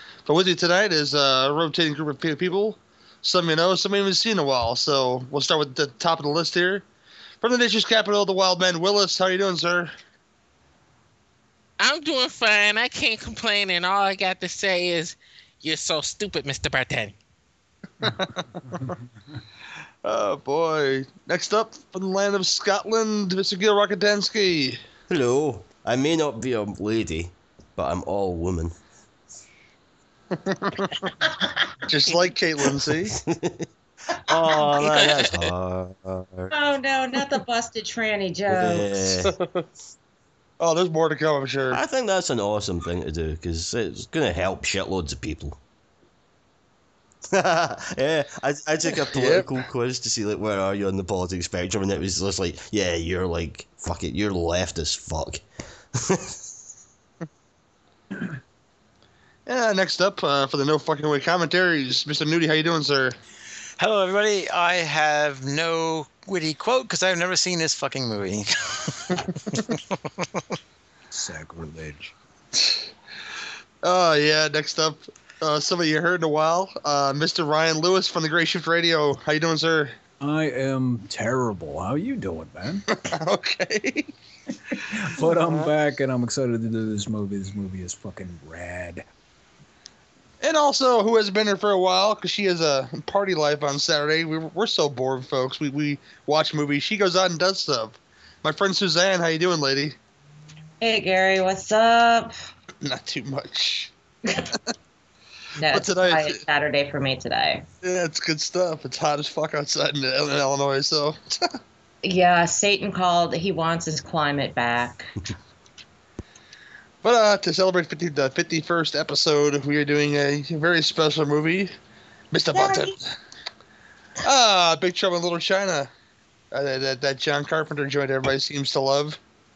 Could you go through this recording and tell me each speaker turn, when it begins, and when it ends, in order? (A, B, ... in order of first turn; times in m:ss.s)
0:00.3-0:06.8 A
0:07.4-0:09.9 A
0:11.8-0:17.2 B
0:18.0-0:18.9 A
0:20.0-0:24.8 A
0:25.1-0:28.8 C
0:30.4-0:31.1 A
0:31.8-0:33.2 A
0:33.0-0:36.5 C
0:34.9-0:35.2 B
0:36.5-0:38.9 D
0:38.5-0:39.4 C
0:39.2-0:39.6 A
0:40.6-0:41.8 A
0:41.7-0:45.6 C
0:47.3-0:55.4 C
0:48.9-0:49.5 A
0:55.9-0:56.4 C
0:59.5-1:03.2 A
1:03.8-1:09.9 E
1:11.1-1:12.1 F
1:12.6-1:12.8 A
1:13.8-1:20.0 A
1:20.2-1:22.8 F
1:22.9-1:24.1 A
1:24.7-1:29.1 F
1:25.4-1:25.7 A
1:30.4-1:40.0 A
1:40.8-1:42.4 D
1:42.8-1:43.9 A
1:45.6-1:47.7 D
1:45.7-1:46.4 A
1:47.8-1:51.6 A
1:52.0-1:55.2 D
1:57.0-2:01.7 A
2:02.3-2:03.2 A
2:02.5-2:03.0 D
2:04.2-2:05.9 A
2:06.5-2:09.2 A